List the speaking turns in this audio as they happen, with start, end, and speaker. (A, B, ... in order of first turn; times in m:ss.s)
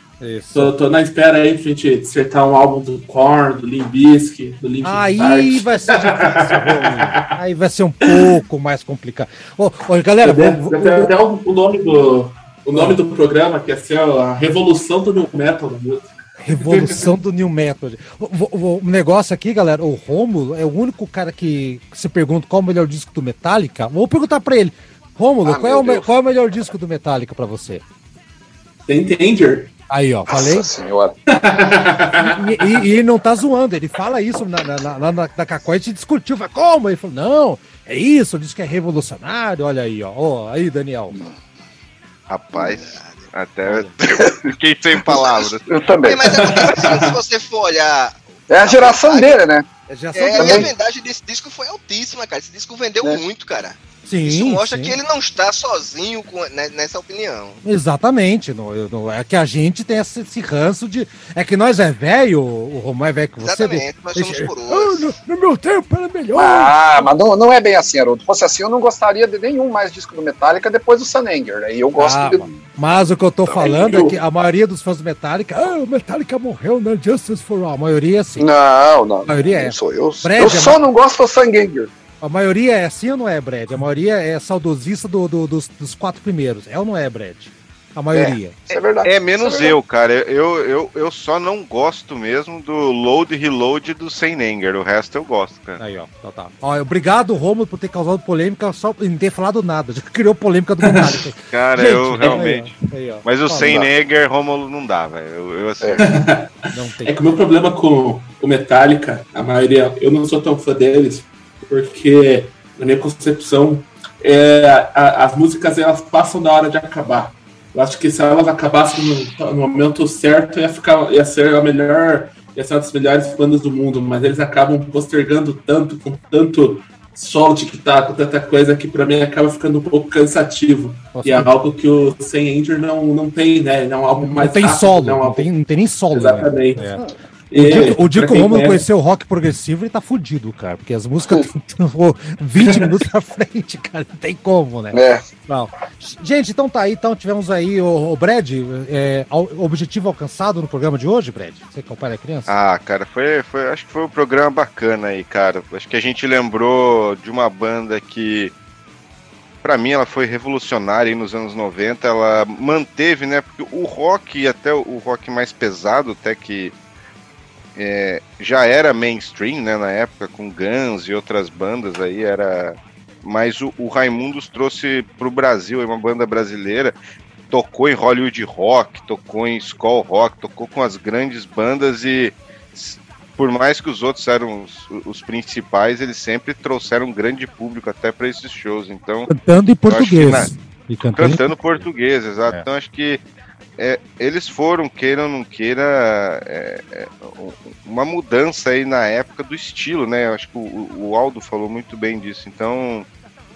0:00.2-0:00.7 A
0:00.5-0:07.3 B
0:04.8-0:11.1 A
0:10.2-0:17.0 B
0:12.7-0:13.0 A
0:16.4-0:27.8 A
0:25.4-0:26.0 C
0:28.9-0:29.7 B
0:29.9-0:30.7 A
0:30.3-0:31.1 C
0:31.3-0:32.4 B
0:32.2-0:41.2 A
0:42.3-0:45.6 D
0:42.8-0:43.3 E
0:45.1-0:46.6 C
0:46.0-0:49.4 E
0:46.3-0:47.2 B
0:48.5-0:49.6 C
0:49.9-0:50.7 A
0:50.1-0:57.6 E
0:50.4-0:50.7 C
0:54.0-0:55.0 A
0:57.6-1:07.1 A
1:03.4-1:05.0 E
1:06.3-1:12.6 C
1:12.0-1:18.5 A
1:13.5-1:14.1 B
1:18.4-1:21.9 C
1:19.2-1:20.8 A
1:22.2-1:28.8 A
1:28.1-1:29.8 C
1:29.0-1:35.8 D
1:35.8-1:43.9 A
1:40.8-1:41.2 B
1:41.5-1:46.1 D
1:46.0-2:15.5 B
1:46.7-1:47.2 A
2:11.1-2:11.5 A
2:14.2-2:17.0 A
2:16.1-2:18.8 B
2:17.6-2:32.5 A
2:24.9-2:25.2 C
2:32.5-2:38.5 D
2:39.6-2:46.7 D
2:47.8-2:57.0 D
2:57.5-3:09.3 D
3:09.3-3:11.5 A
3:09.9-3:10.5 D
3:11.2-3:13.2 D
3:13.8-3:23.1 D